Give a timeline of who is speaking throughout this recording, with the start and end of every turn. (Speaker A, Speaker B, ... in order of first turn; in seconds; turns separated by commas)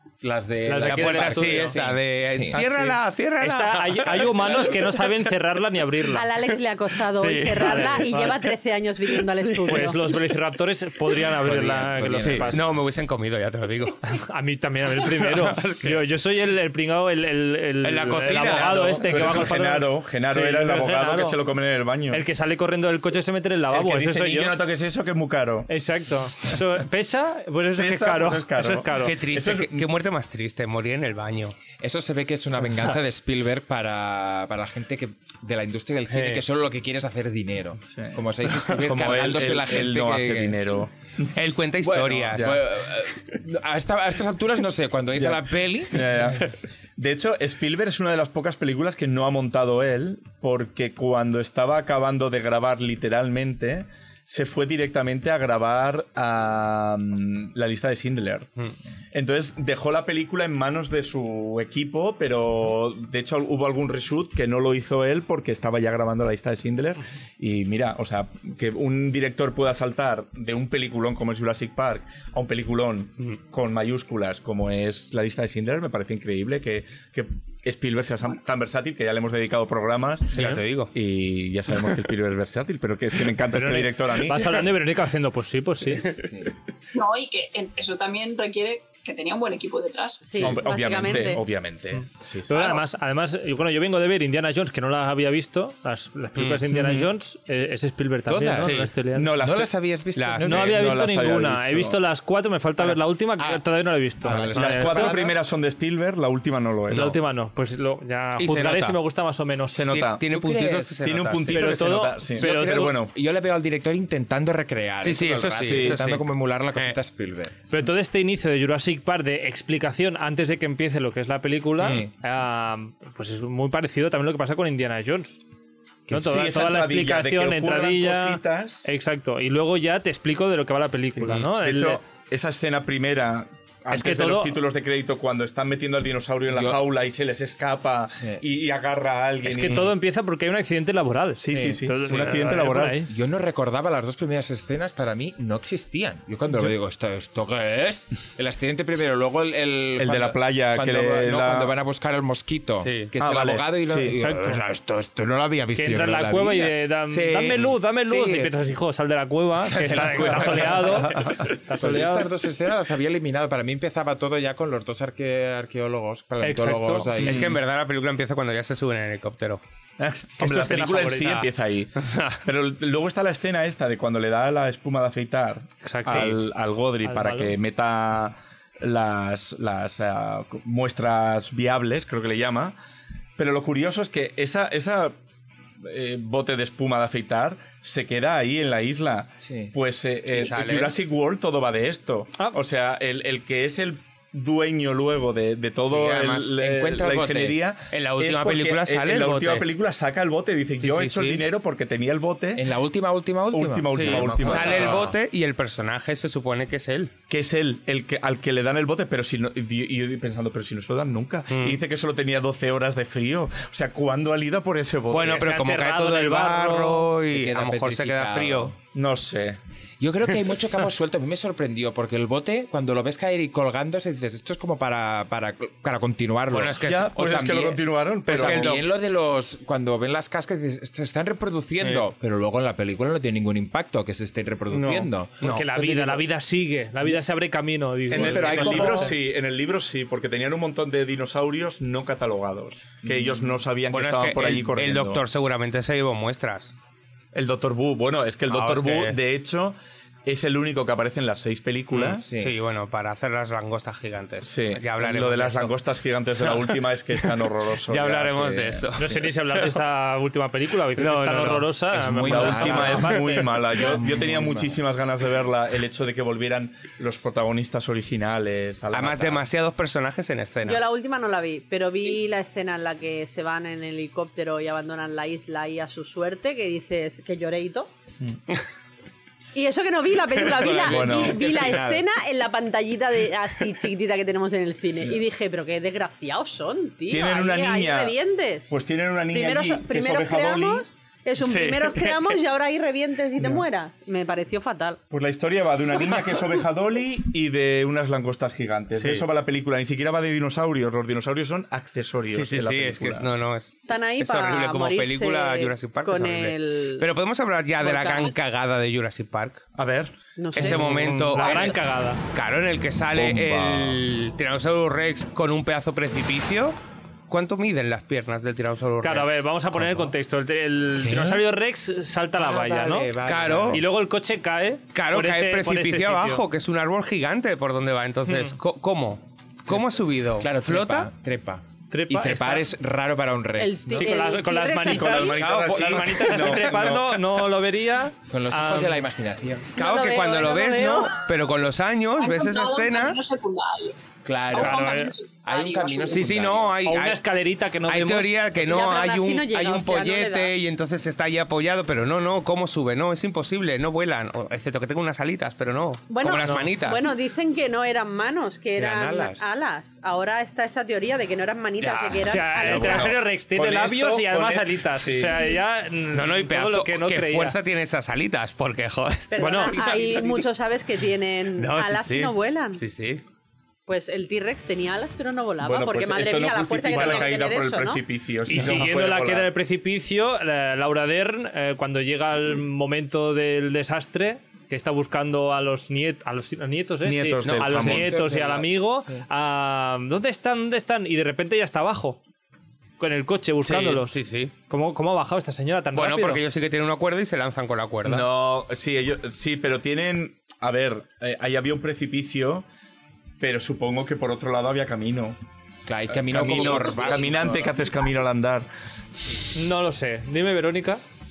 Speaker A: 0.2-2.9, Speaker B: 0.7-1.8, Speaker C: 0.8-5.0, Speaker B: 3.4-6.3, Speaker D: 6.1-10.0, Speaker C: 6.5-8.3, Speaker B: 7.6-8.4, Speaker C: 9.1-9.9, Speaker B: 9.7-12.6, Speaker A: 11.4-12.6, Speaker C: 12.2-14.1, Speaker B: 14.1-21.4, Speaker C: 15.0-16.0, Speaker C: 17.8-19.5, Speaker E: 18.3-22.2, Speaker B: 22.1-24.6, Speaker E: 23.7-25.7, Speaker B: 25.7-29.2, Speaker E: 27.8-29.9, Speaker C: 29.0-31.6, Speaker A: 31.8-40.8, Speaker C: 36.1-36.4, Speaker E: 37.9-38.1, Speaker C: 38.6-38.8, Speaker E: 38.8-40.9, Speaker C: 41.3-42.6, Speaker A: 41.8-46.2, Speaker E: 45.9-58.5, Speaker E: 59.1-84.6, Speaker C: 80.3-80.9, Speaker B: 83.5-86.1, Speaker A: 86.2-86.5, Speaker F: 86.9-90.4, Speaker D: 90.2-91.4, Speaker E: 90.4-92.8, Speaker B: 92.0-99.3, Speaker C: 96.4-96.8, Speaker A: 98.3-98.8, Speaker C: 98.6-98.9, Speaker E: 99.2-99.7, Speaker A: 99.4-100.9, Speaker C: 100.2-100.7, Speaker B: 100.4-105.2, Speaker E: 100.5-102.0, Speaker A: 102.8-103.6, Speaker A: 104.2-105.3, Speaker E: 104.4-107.2, Speaker B: 106.9-109.8, Speaker C: 108.4-109.0, Speaker E: 109.7-110.2, Speaker C: 109.9-111.7, Speaker A: 110.3-111.0, Speaker E: 111.0-113.1, Speaker B: 111.5-113.0, Speaker A: 112.4-117.5, Speaker C: 115.0-117.0, Speaker E: 115.6-116.0, Speaker B: 117.7-125.4, Speaker A: 121.8-122.1, Speaker B: 126.1-132.0, Speaker E: 126.2-128.9, Speaker E: 131.3-139.9, Speaker B: 133.9-134.6, Speaker A: 136.5-136.8, Speaker A: 138.2-138.4, Speaker B: 139.4-143.1, Speaker E: 141.4-143.0, Speaker A: 141.5-141.8, Speaker A: 143.1-158.6, Speaker E: 150.0-151.7, Speaker C: 152.8-153.1, Speaker E: 153.2-154.2, Speaker B: 154.2-154.6, Speaker B: 155.8-162.3, Speaker A: 159.6-167.6, Speaker B: 166.4-167.1, Speaker E: 167.2-167.6, Speaker C: 167.2-169.6, Speaker E: 170.0-171.9, Speaker B: 170.4-171.5, Speaker C: 172.0-172.4, Speaker E: 172.4-182.8, Speaker B: 175.8-176.4, Speaker B: 177.0-177.6, Speaker E: 183.4-185.2, Speaker E: 185.8-202.7, Speaker A: 189.4-189.7, Speaker C: 190.3-190.9, Speaker C: 195.9-199.7, Speaker A: 196.7-197.5, Speaker C: 200.8-201.4, Speaker A: 202.6-205.2, Speaker E: 203.5-205.1, Speaker C: 203.9-207.1, Speaker E: 207.3-215.5, Speaker C: 211.5-211.8, Speaker C: 215.1-218.7, Speaker B: 215.2-217.1, Speaker A: 217.3-218.8, Speaker E: 218.9-219.6, Speaker A: 220.0-227.6, Speaker C: 226.5-228.9, Speaker E: 226.8-228.8, Speaker A: 228.3-236.2, Speaker C: 231.8-232.1, Speaker E: 234.7-235.1, Speaker B: 235.4-239.1, Speaker A: 238.1-239.2, Speaker E: 238.1-245.2, Speaker A: 243.0-243.6, Speaker C: 243.9-246.7, Speaker E: 247.3-252.3, Speaker C: 248.5-249.2, Speaker C: 251.9-255.8, Speaker A: 252.2-252.6, Speaker E: 254.4-258.9, Speaker C: 256.4-257.3, Speaker C: 257.9-259.8, Speaker B: 259.0-263.2, Speaker C: 261.0-261.7, Speaker A: 262.1-264.8, Speaker E: 262.2-269.4, Speaker C: 268.9-270.8, Speaker D: 270.6-277.9, Speaker D: 279.6-288.8, Speaker A: 280.5-282.0, Speaker C: 280.6-280.9, Speaker E: 280.9-281.4, Speaker C: 281.4-281.8, Speaker E: 287.1-288.1, Speaker E: 288.7-290.9, Speaker D: 289.3-295.0, Speaker C: 291.4-292.4, Speaker E: 293.4-293.6, Speaker E: 295.1-303.3, Speaker C: 299.0-299.2, Speaker C: 302.3-309.7, Speaker D: 303.9-307.1, Speaker D: 307.8-308.3, Speaker E: 309.8-311.7, Speaker D: 310.4-311.2, Speaker C: 310.6-311.8, Speaker B: 311.3-312.2, Speaker C: 312.3-316.8, Speaker E: 313.1-314.0, Speaker C: 317.3-320.0, Speaker B: 319.0-323.1, Speaker A: 321.0-321.4, Speaker A: 322.4-323.9, Speaker C: 323.2-323.9, Speaker B: 323.7-326.4, Speaker C: 324.9-331.1, Speaker B: 328.3-328.6, Speaker A: 330.4-334.1, Speaker B: 331.9-332.7, Speaker D: 333.6-335.5, Speaker B: 333.9-339.0, Speaker E: 334.8-337.2, Speaker C: 335.2-337.0, Speaker A: 338.3-339.7, Speaker D: 339.8-341.1, Speaker C: 339.8-343.2, Speaker F: 342.2-346.4, Speaker A: 344.2-344.8, Speaker B: 344.6-345.1, Speaker A: 345.5-346.8, Speaker C: 346.1-347.2, Speaker B: 346.9-348.5, Speaker C: 347.9-357.1, Speaker D: 348.6-350.5, Speaker D: 356.1-363.2, Speaker B: 356.4-356.7, Speaker A: 358.8-359.5, Speaker C: 361.8-362.2, Speaker B: 362.1-367.6, Speaker E: 362.5-365.4, Speaker C: 366.1-370.4, Speaker D: 369.3-372.8, Speaker B: 369.4-370.2, Speaker C: 371.6-373.2, Speaker D: 373.9-378.0, Speaker E: 375.6-379.5, Speaker B: 376.9-377.3, Speaker B: 378.5-392.2, Speaker C: 378.5-378.9, Speaker E: 387.1-388.1, Speaker C: 387.4-388.1, Speaker A: 387.8-389.2, Speaker B: 393.0-394.1, Speaker C: 393.7-394.5, Speaker B: 394.7-396.4, Speaker C: 395.9-398.3, Speaker E: 398.0-402.6, Speaker E: 403.4-405.4, Speaker A: 405.9-407.8, Speaker E: 406.1-408.7, Speaker F: 406.4-408.2, Speaker B: 409.6-411.0